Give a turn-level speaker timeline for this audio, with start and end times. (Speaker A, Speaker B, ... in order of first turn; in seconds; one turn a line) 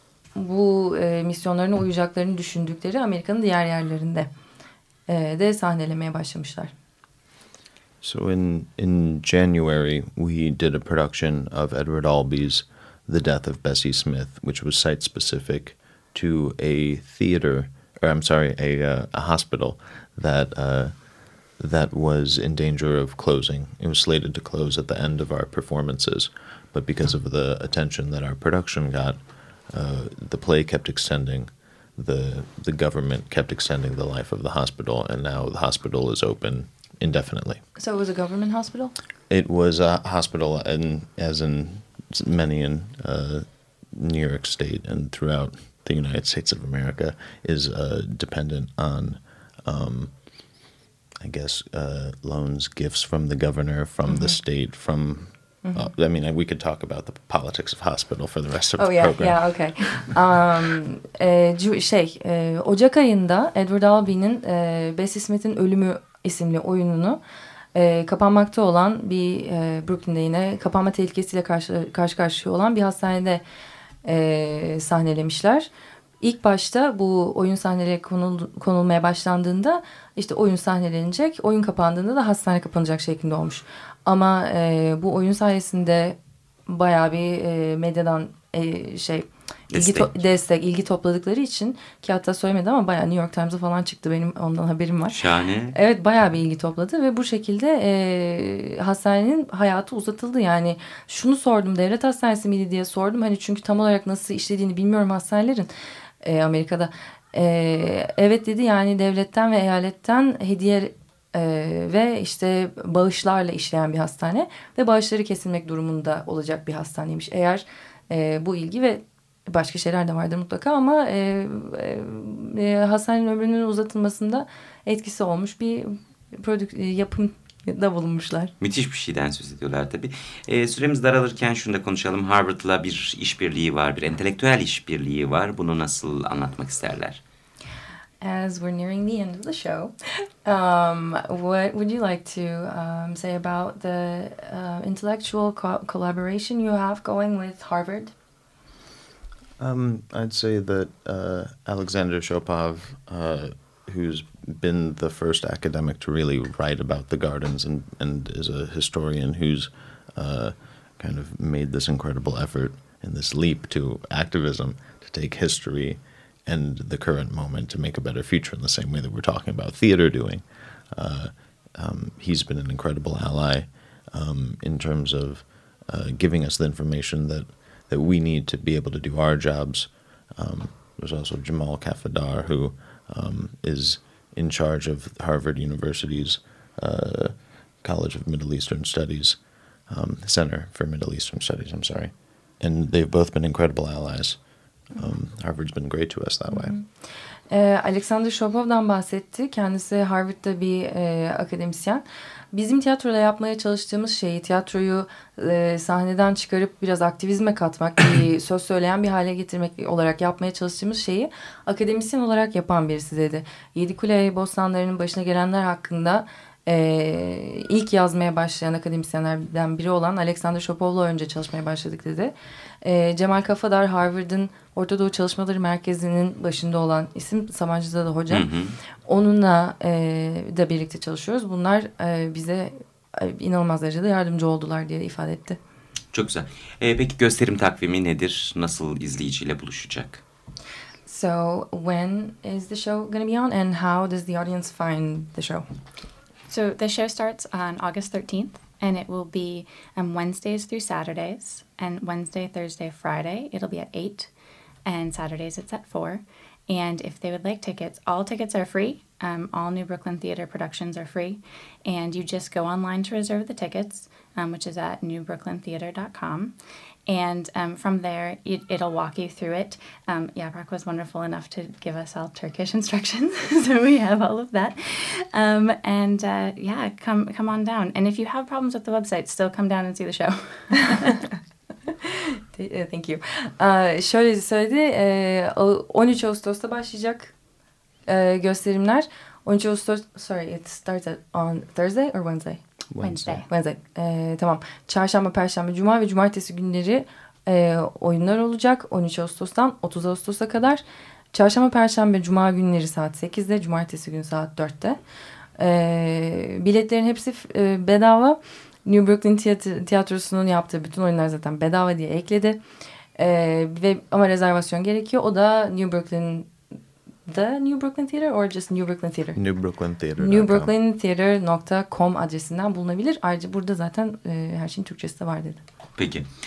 Speaker A: 0.3-4.3
Speaker A: 5.1-6.7
Speaker B: 8.0-21.0
Speaker B: 21.6-37.6
Speaker A: 37.8-38.9
Speaker B: 39.3-50.2
Speaker B: 51.2-59.4
Speaker A: 54.1-54.4
Speaker A: 55.6-55.9
Speaker A: 58.8-67.2
Speaker A: 67.7-73.4
Speaker A: 74.0-75.7
Speaker A: 76.2-95.2
Speaker C: 89.7-90.1
Speaker C: 95.1-95.7
Speaker A: 95.7-105.7
Speaker A: 106.2-128.5
Speaker C: 128.6-137.2
Speaker A: 138.2-148.1
Speaker B: 149.6-189.4
Speaker B: 189.9-194.4
Speaker B: 194.9-196.8
Speaker A: 196.5-196.8
Speaker A: 197.5-228.4
Speaker C: 228.3-228.8
Speaker A: 229.1-235.6
Speaker C: 236.1-240.2
Speaker A: 241.1-245.6
Speaker D: 246.5-254.3
Speaker D: 254.8-266.5
Speaker D: 267.1-281.2
Speaker A: 281.9-287.3
Speaker A: 288.1-292.6
Speaker B: 292.9-293.4
Speaker D: 293.0-293.4
Speaker A: 293.5-305.0
Speaker A: 305.6-312.6
Speaker A: 313.2-316.5
Speaker A: 317.2-319.4
Speaker B: 319.3-320.7
Speaker A: 320.2-325.6
Speaker C: 326.0-326.3